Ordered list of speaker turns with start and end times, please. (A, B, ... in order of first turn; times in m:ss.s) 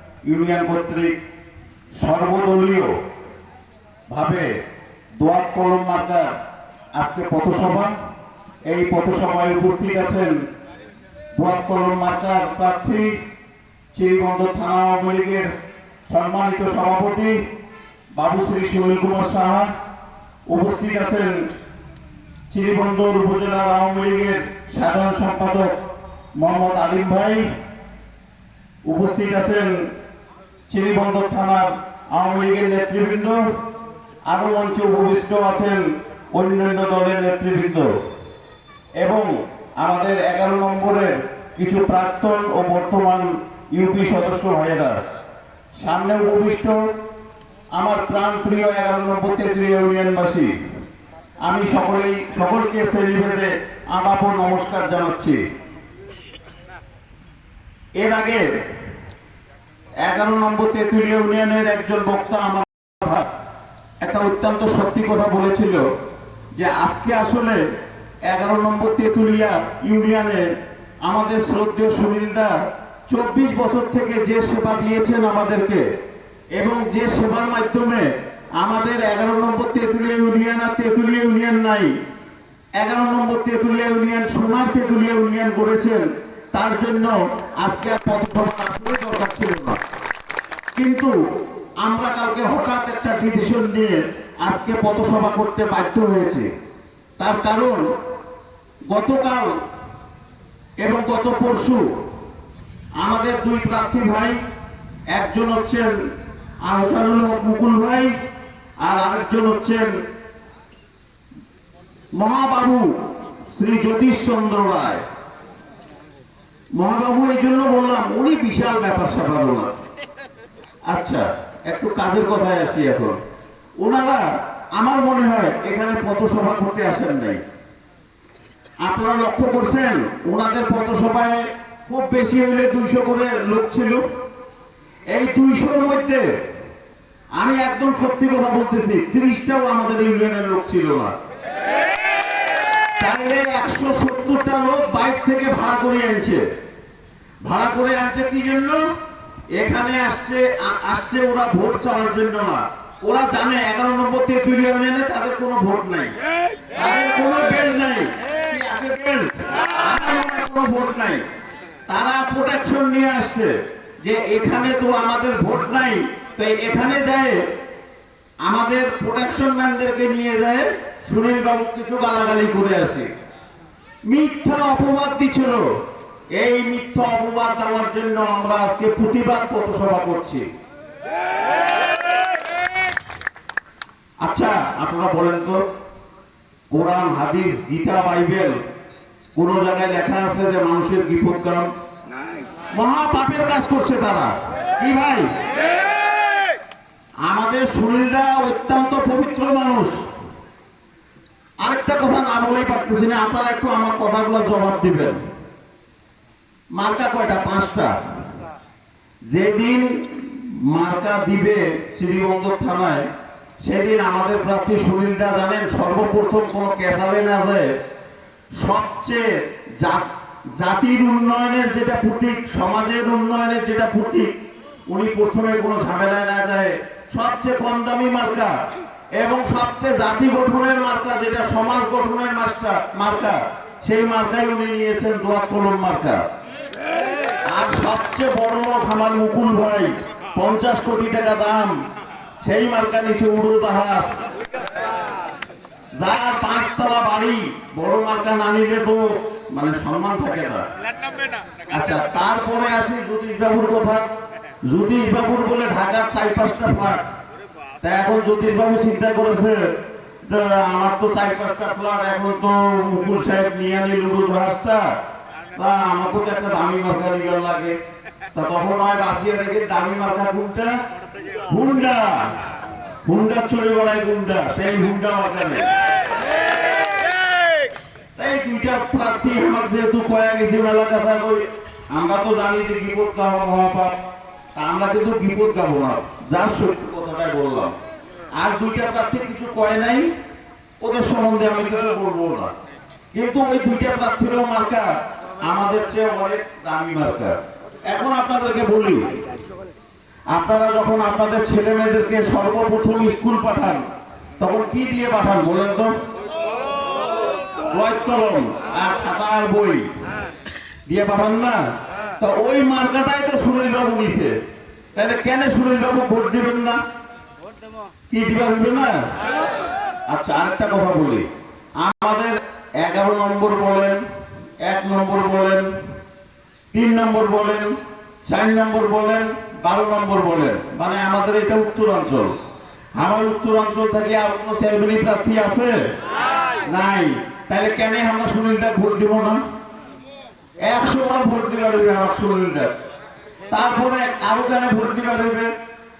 0:00.2-0:01.1 A
0:02.0-0:02.9 A
0:04.1-0:04.5 A
0:05.2-0:06.3 A
0:07.0-0:07.9 A
0:08.7-0:10.4 A
0:11.4-0:13.2 A
0:13.9-0:15.5 A
0:16.1-0:17.4 A
0:18.2-0:19.7 A
0:20.5-0:21.3 A
0:22.5-0:25.8 A
0:26.4-0:27.4 A
0:28.8-0:29.8 A
0:30.7-0:33.4 A
0:34.3-0:37.9 A
0:39.0-0:45.2 A
0:45.8-0:46.8 A
0:47.8-0:50.5 A
0:51.4-0:55.4 A
0:58.0-0:58.4 A
1:00.0-1:03.3 A
1:04.0-1:05.9 A
1:06.6-1:07.6 A
1:08.3-1:10.5 A
1:11.0-1:12.6 A
1:13.1-1:15.9 A
1:16.6-1:21.9 A
1:22.8-1:29.8 A
1:30.8-1:31.1 A
1:31.8-1:36.5 A
1:37.2-1:37.8 A
1:38.9-1:39.5 A
1:40.8-1:42.0 A
1:43.0-1:44.4 A
1:45.1-1:45.9 A
1:46.6-1:48.1 A
1:48.8-1:49.9 A
1:52.2-1:55.0 A
1:56.8-1:59.8 A
2:00.9-2:03.2 A
2:03.8-2:07.4 A
2:08.8-2:14.0 A
2:15.1-2:16.3 A
2:17.4-2:21.1 A
2:23.0-2:26.4 A
2:27.4-2:28.8 A
2:29.5-2:36.1 A
2:36.7-2:41.2 A
2:41.9-2:47.4 A
2:48.4-2:53.1 A
2:54.1-2:55.7 A
2:56.3-3:00.5 A
3:04.2-3:05.6 A
3:06.7-3:08.6 A
3:09.4-3:11.7 A
3:12.7-3:15.3 A
3:17.3-3:20.0 A
3:21.6-3:25.2 A
3:26.8-3:28.0 A
3:29.3-3:33.1 A
3:33.6-3:37.7 A
3:38.6-3:39.2 A
3:39.8-3:44.3 A
3:44.9-3:48.6 A
3:49.2-3:56.2 A
3:57.5-4:01.8 A
4:02.4-4:04.2 A
4:06.0-4:10.6 A
4:11.7-4:14.0 A
4:14.7-4:17.0 A
4:17.8-4:19.7 A
4:20.2-4:24.9 A
4:25.6-4:27.8 A
4:28.3-4:30.7 A
4:31.5-4:32.4 A
4:33.0-4:35.7 A
4:38.2-4:44.0 A
4:44.6-4:47.8 A
4:48.4-4:50.1 A
4:50.8-4:52.5 A
4:53.1-4:54.9 A
4:55.4-4:59.2 A
5:00.3-5:03.8 A
5:04.4-5:05.9 A
5:07.6-5:09.9 A
5:10.9-5:11.6 A
5:12.2-5:14.3 A
5:14.9-5:16.8 A
5:18.1-5:19.0 A
5:20.1-5:21.3 A
5:21.8-5:24.0 A
5:24.6-5:25.7 A
5:26.7-5:27.7 A
5:28.2-5:32.4 A
5:33.0-5:35.8 A
5:36.7-5:39.4 A
5:40.6-5:42.7 A
5:43.5-5:45.5 A